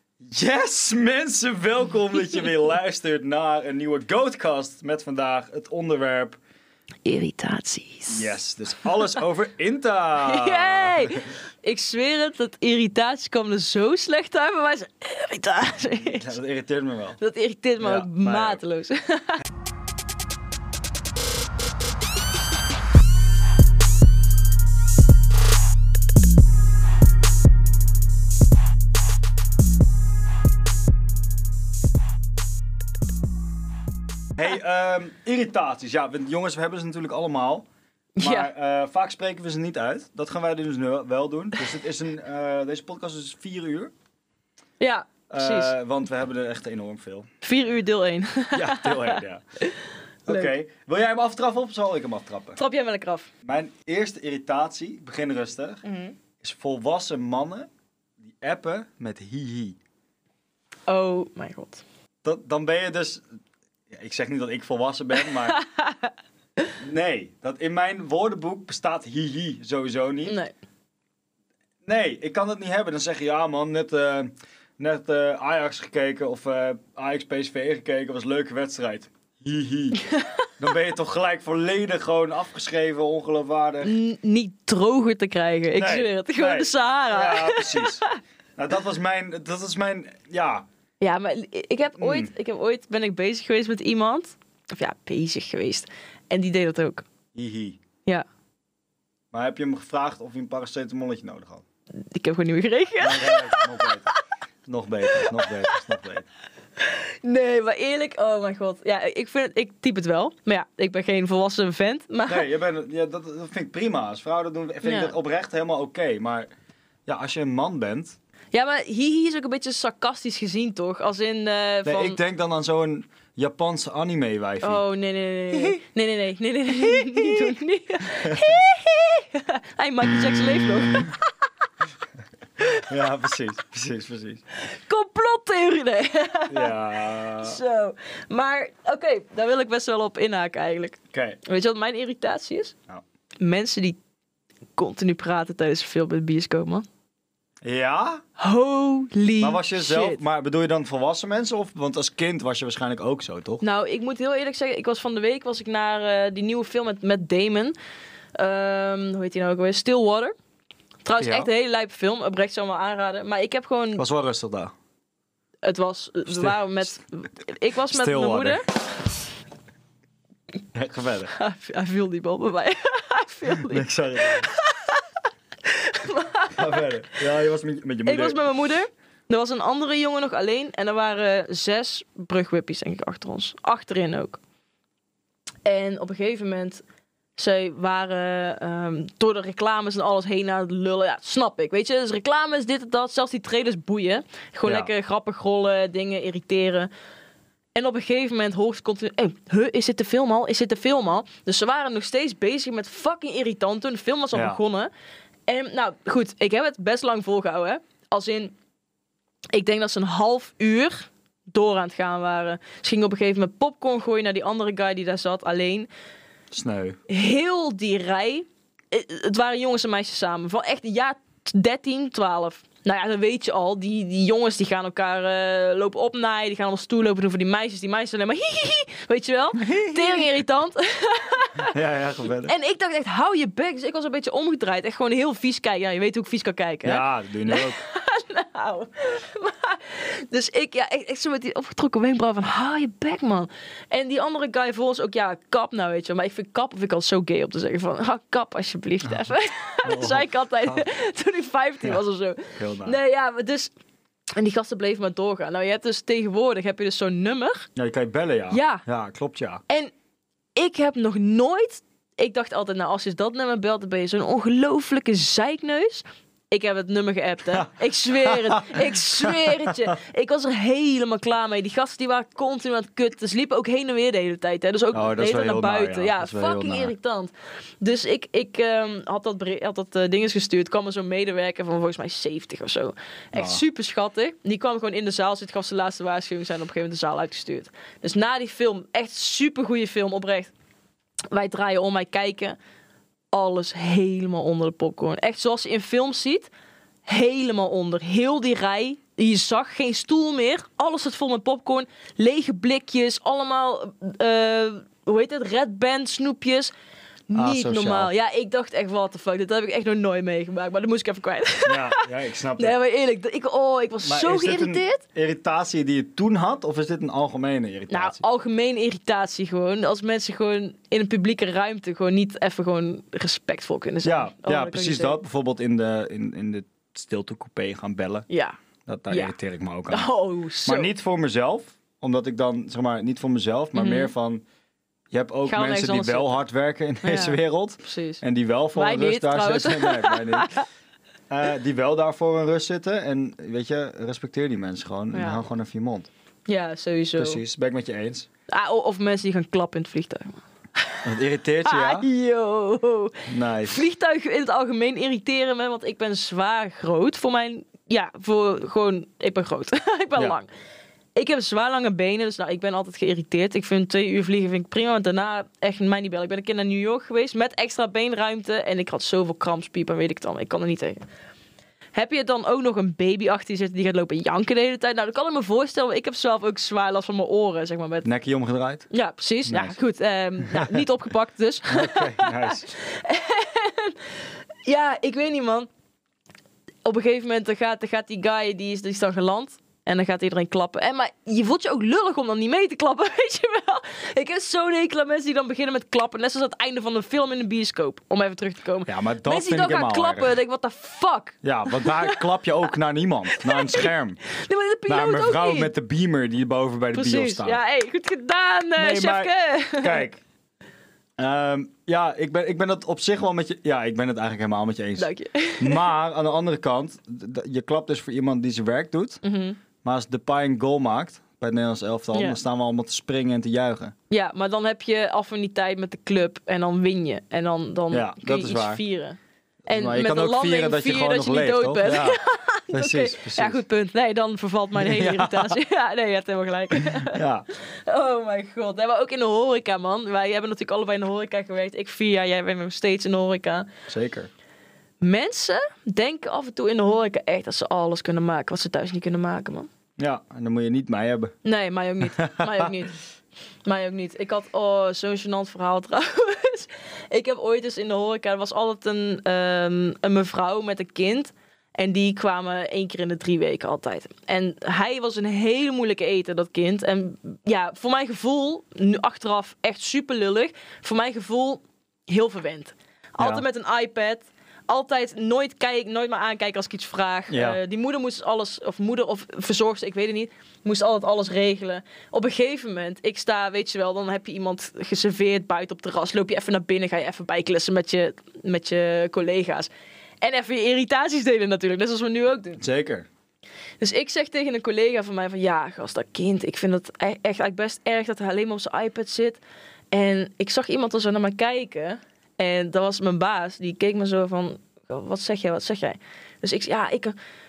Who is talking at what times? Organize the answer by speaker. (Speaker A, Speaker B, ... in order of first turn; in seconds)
Speaker A: 0.2-6.4, 8.1-11.2, 16.0-17.2, 17.8-18.6, 34.4-37.7, 38.2-43.9, 45.3-47.3, 48.5-49.4, 50.3-52.6, 53.4-55.8, 56.4-57.7, 58.2-59.8, 62.2-63.2, 63.9-65.6, 66.8-70.4, 71.8-80.0, 80.6-84.0, 85.8-88.0, 88.6-90.7, 92.0-92.3, 97.3-97.8, 99.3-101.6, 103.0-104.1, 104.7-106.3, 112.3-116.5, 117.1-118.2, 121.8-124.8, 126.7-127.6, 128.2-128.6, 132.7-134.4, 136.5-137.6, 141.1-141.4, 147.6-148.2, 149.4-153.6, 161.2-161.5, 164.0-164.7, 166.3-167.0, 167.9-168.6, 170.7-171.3, 173.5-174.5, 176.5-178.4, 194.6-194.9, 204.3-204.6, 216.5-217.0, 229.6-230.3, 231.7-232.5, 236.8-237.8, 249.8-250.8, 252.6-253.0, 257.8-259.6, 268.2-269.9, 274.9-276.9, 283.3-283.6, 307.3-308.1, 311.7-312.8, 314.0-318.2, 324.0-328.3, 328.9-330.1, 330.6-334.4, 335.1-340.5, 341.3-346.1, 347.2-348.3, 351.0-352.1, 353.3-353.9, 378.0-378.9, 379.5-379.8, 380.4-380.8, 381.7-382.7, 398.9-400.4, 401.4-404.2, 404.9-407.6, 408.8-410.2, 411.2-419.2, 419.8-423.9, 427.9-428.8, 429.7-432.2, 432.7-433.6, 434.8-435.6, 436.8-437.4, 443.9-444.3, 450.0-451.4, 452.0-452.7, 473.2-473.4, 477.3-477.6, 492.6-493.1
Speaker B: 7.0-8.4, 10.2-16.3, 17.2-19.4, 38.2-38.5, 44.8-45.7, 47.4-49.8, 52.6-53.3, 55.8-56.1, 60.9-61.8, 65.5-66.1, 70.3-70.5, 80.0-80.3, 83.8-88.2, 91.0-97.0, 102.0-103.9, 105.1-105.8, 106.8-112.5, 114.8-115.1, 118.5-122.2, 124.6-131.3, 134.7-142.8, 143.4-144.0, 144.8-146.9, 148.4-150.2, 153.6-157.8, 158.3-160.3, 161.1-164.0, 165.6-168.7, 171.3-175.0, 175.7-176.9, 178.1-184.4, 185.7-186.8, 187.4-196.9, 197.8-204.9, 205.5-208.5, 209.5-215.9, 217.1-231.7, 232.5-253.7, 254.4-257.7, 258.5-258.8, 260.6-290.5, 291.3-292.6, 293.3-296.5, 297.1-306.7, 307.3-312.1, 312.6-315.0, 317.9-325.2, 328.3-328.6, 329.1-329.4, 329.9-330.9, 333.8-334.1, 335.5-336.4, 337.0-338.2, 338.8-340.6, 345.1-345.5, 346.5-347.4, 348.5-351.0, 351.6-360.5, 361.1-371.1, 371.9-378.1, 378.9-384.0, 384.6-385.7, 386.9-402.3, 403.3-405.7, 406.9-410.1, 415.0-415.9, 419.2-419.6, 422.1-422.4, 424.1-443.7, 445.0-449.7, 451.4-453.0, 453.6-489.7, 490.2-492.6, 493.8-499.4, 499.9-507.2